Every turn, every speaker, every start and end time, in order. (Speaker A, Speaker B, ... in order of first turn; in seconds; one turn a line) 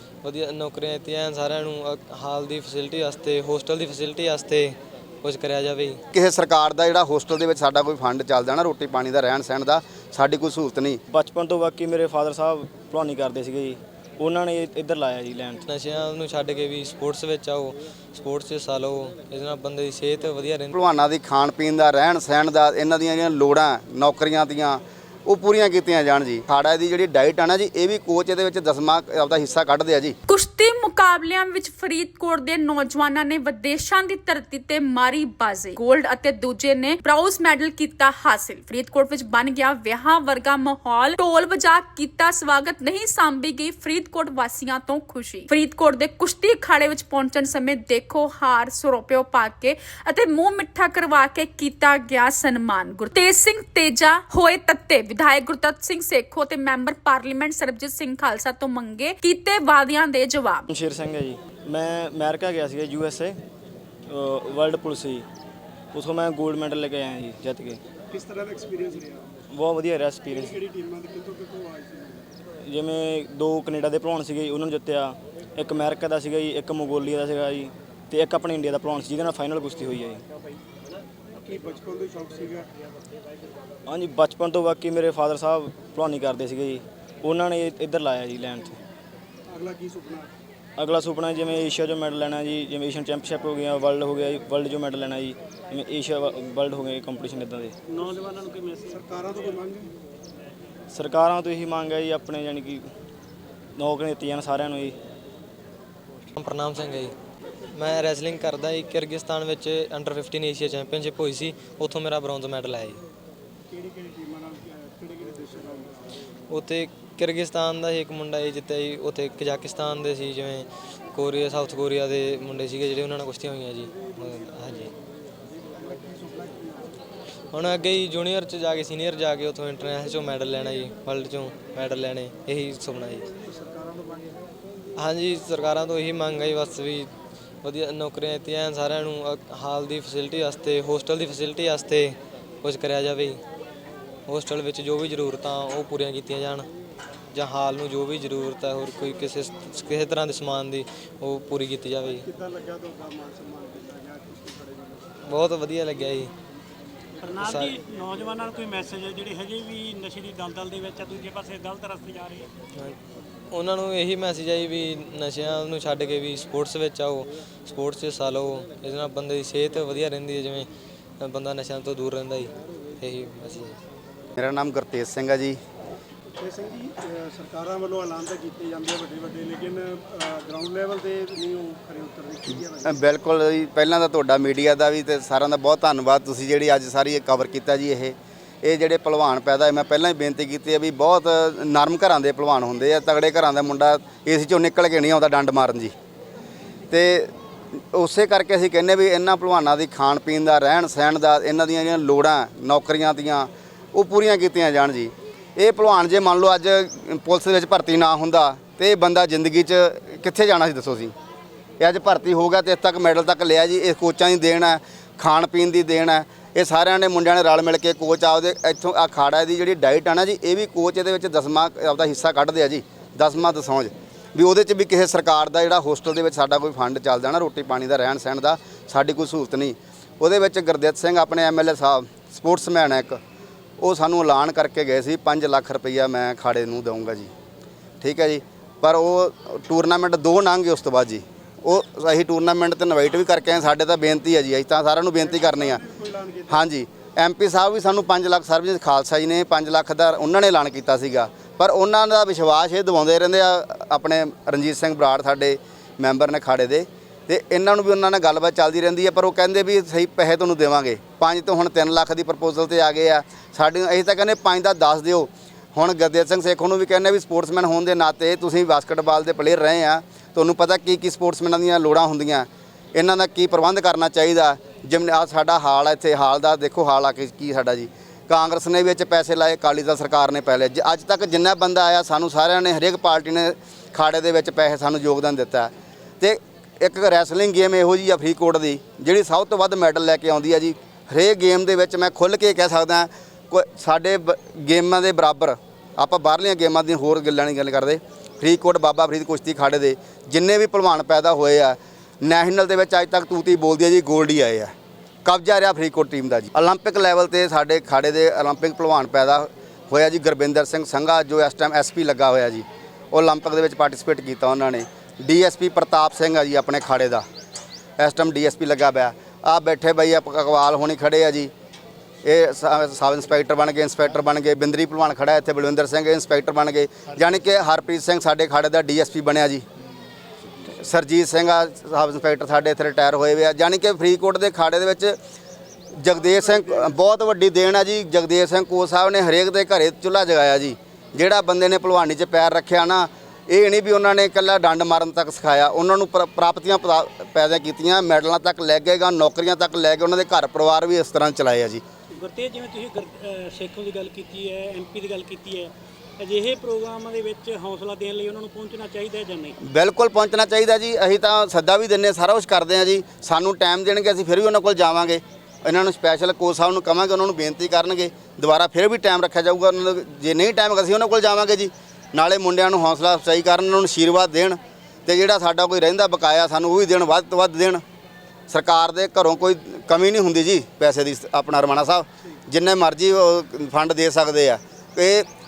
Speaker A: 0.2-6.0
Speaker B: 6.1-11.0
Speaker C: 11.1-15.7
Speaker A: 15.7-20.7
Speaker B: 20.7-30.2
Speaker D: 30.3-60.7
Speaker C: 60.7-63.4
Speaker C: 64.1-65.2
Speaker C: 65.9-67.8
Speaker E: 68.1-69.3
Speaker C: 69.5-70.6
Speaker E: 70.3-72.3
Speaker C: 72.6-80.2
Speaker E: 81.3-82.7
Speaker C: 83.9-88.8
Speaker E: 89.5-90.3
Speaker C: 90.8-97.7
Speaker F: 97.9-99.0
Speaker E: 98.9-99.9
Speaker C: 100.9-102.9
Speaker C: 103.8-105.0
Speaker A: 106.4-107.1
Speaker A: 107.7-113.0
Speaker E: 113.7-116.1
Speaker A: 116.5-124.9
Speaker E: 125.6-127.0
Speaker A: 127.5-133.3
Speaker E: 133.5-134.4
Speaker A: 135.0-137.1
Speaker A: 137.6-143.4
Speaker A: 144.3-146.7
Speaker A: 147.3-152.3
Speaker E: 152.2-155.2
Speaker A: 155.3-156.3
Speaker F: 157.2-162.5
Speaker A: 157.4-157.8
Speaker A: 163.5-170.7
Speaker A: 171.2-173.8
Speaker B: 174.4-175.6
Speaker E: 176.4-183.0
Speaker B: 182.8-195.9
Speaker B: 196.9-211.1
Speaker B: 211.8-233.2
Speaker B: 233.8-237.3
Speaker B: 238.0-245.8
Speaker E: 245.2-246.7
Speaker B: 246.5-304.7
Speaker B: 305.2-317.2
Speaker B: 318.0-321.5
Speaker B: 322.2-329.6
Speaker B: 330.7-335.2
Speaker B: 335.9-351.8
Speaker F: 352.1-359.6
Speaker B: 359.6-377.8
Speaker B: 378.5-385.3